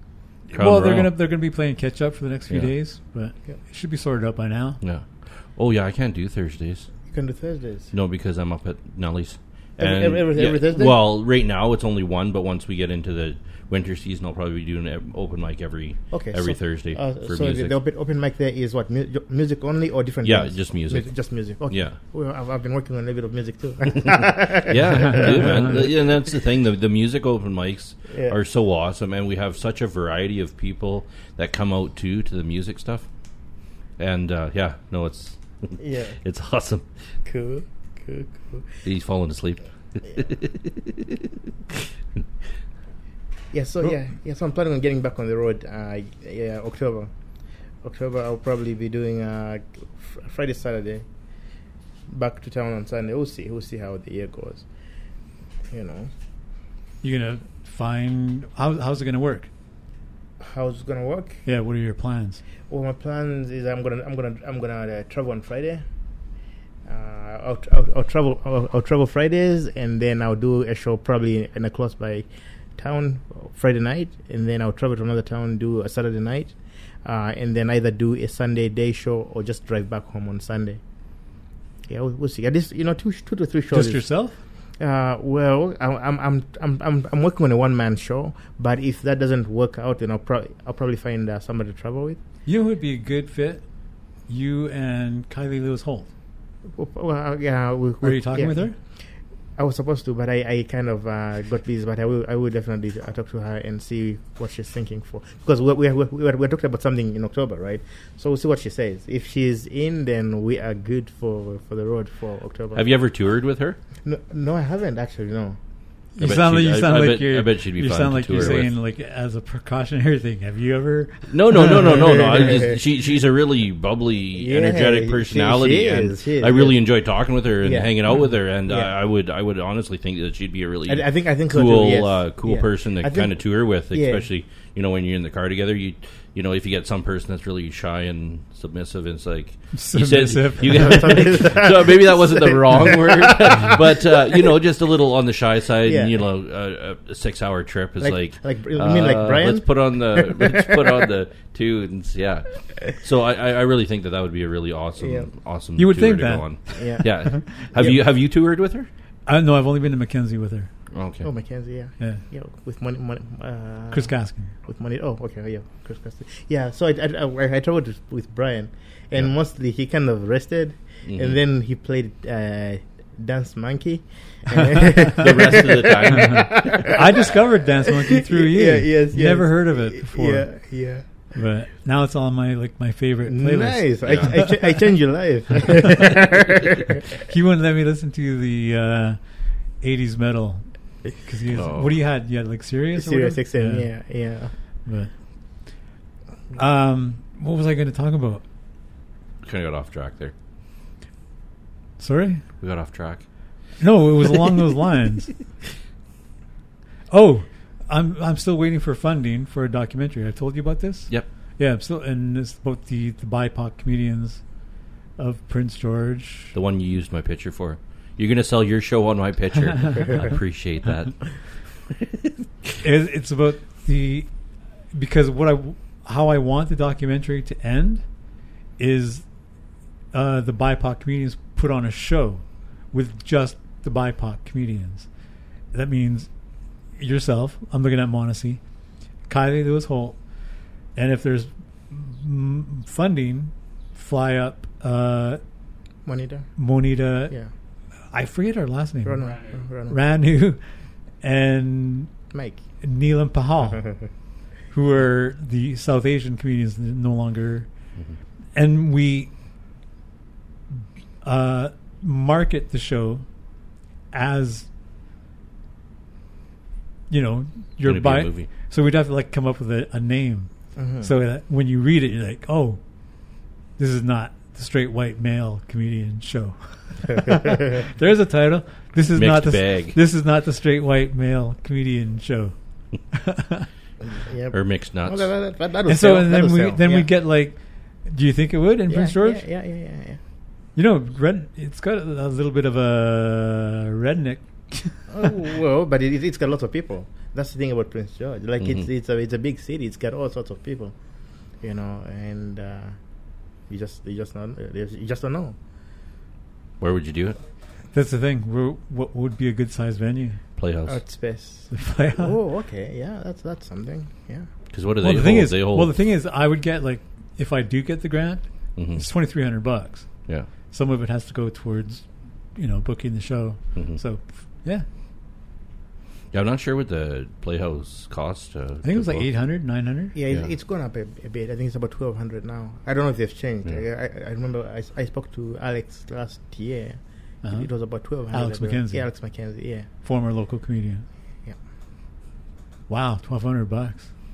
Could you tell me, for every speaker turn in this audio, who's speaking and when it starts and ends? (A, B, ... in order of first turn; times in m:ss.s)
0:00.5-0:04.8 A
0:00.5-0:01.1 B
0:04.8-0:06.9 B
0:07.1-0:07.9 C
0:07.9-0:17.8 B
0:09.8-0:11.0 C
0:16.1-0:26.0 C
0:20.2-0:21.1 B
0:21.7-0:22.0 B
0:24.6-0:33.1 B
0:28.1-0:28.4 C
0:34.0-0:36.8 B
0:35.8-0:36.2 C
0:37.2-0:38.8 C
0:38.8-0:41.8 B
0:43.5-0:47.1 C
0:47.8-0:51.0 C
0:52.1-0:54.6 C
0:55.7-0:56.1 C
0:57.0-0:59.5 A
1:00.4-1:01.4 C
1:01.4-1:02.4 A
1:02.7-1:05.8 C
1:06.8-1:20.8 C
1:21.9-1:24.1 C
1:23.7-1:24.4 A
1:24.8-1:32.2 C
1:32.4-1:33.6 A
1:34.3-1:36.1 A
1:36.7-1:38.7 C
1:38.0-1:38.7 A
1:39.6-1:52.9 C
1:52.7-1:53.8 B
1:54.0-1:55.6 C
1:56.2-2:01.7 A
1:56.2-1:58.7 B
2:01.3-2:38.9 B
2:01.5-2:02.8 C
2:04.3-2:06.8 C
2:07.6-2:09.0 C
2:10.9-2:14.2 C
2:19.7-2:21.1 A
2:20.6-2:24.4 C
2:25.8-2:26.2 C
2:28.0-2:31.1 C
2:35.0-2:35.3 C
2:35.8-2:37.9 A
2:36.8-2:38.0 C
2:39.3-2:40.7 A
2:40.9-2:41.3 B
2:41.2-2:57.3 C
2:43.9-2:44.5 A
2:51.0-2:51.4 B
2:55.1-2:56.9 B
2:56.1-3:00.5 A
2:57.9-3:01.0 C
3:01.3-3:04.5 A
3:03.2-3:07.0 C
3:04.0-3:04.3 B
3:07.2-3:09.2 A
3:09.8-3:13.9 A
3:11.5-3:12.0 B
3:12.9-3:14.5 C
3:16.5-3:18.4 A
3:19.4-3:20.3 B
3:22.0-3:22.4 A
3:22.6-3:23.2 B
3:23.8-3:25.3 A
3:27.1-3:34.4 A
3:35.2-3:36.5 A
3:36.5-3:41.3 B
3:42.8-3:44.3 A
3:44.9-3:48.0 A
3:48.8-3:49.2 A
3:50.1-3:55.1 A
3:55.7-3:56.3 A
3:57.0-3:58.6 A
3:59.3-4:00.2 A
4:01.0-4:05.4 A
4:06.0-4:06.5 C
4:06.6-4:07.3 A
4:08.1-4:10.6 A
4:09.0-4:10.0 C
4:11.2-4:12.1 A
4:12.3-4:12.6 C
4:12.8-4:13.9 A
4:14.7-4:17.7 A
4:18.5-4:19.3 A
4:21.2-4:23.2 A
4:24.1-4:24.7 A
4:27.1-4:32.8 A
4:27.8-4:28.5 B
4:30.8-4:31.1 C
4:33.8-4:42.5 A
4:39.1-4:40.0 B
4:43.1-4:43.7 A
4:44.2-4:47.1 C
4:44.5-4:45.3 B
4:45.9-4:49.4 A
4:48.9-4:50.2 C
4:50.8-4:55.3 A
4:55.1-5:00.9 C
4:58.6-4:58.8 B
5:01.6-5:03.0 C
5:03.7-5:05.5 C
5:06.8-5:07.4 B
5:07.9-5:10.4 A
5:10.6-5:11.0 B
5:10.9-5:14.5 C
5:11.7-5:12.3 A
5:14.7-5:15.9 B
5:15.0-5:20.1 A
5:18.8-5:19.0 B
5:20.7-5:24.8 A
5:23.7-5:24.0 B
5:26.3-5:29.3 B
5:28.8-5:30.1 A
5:30.1-5:39.9 C
5:37.4-5:37.7 A
5:38.3-5:39.0 A
5:40.0-5:41.0 A
5:42.9-5:44.1 A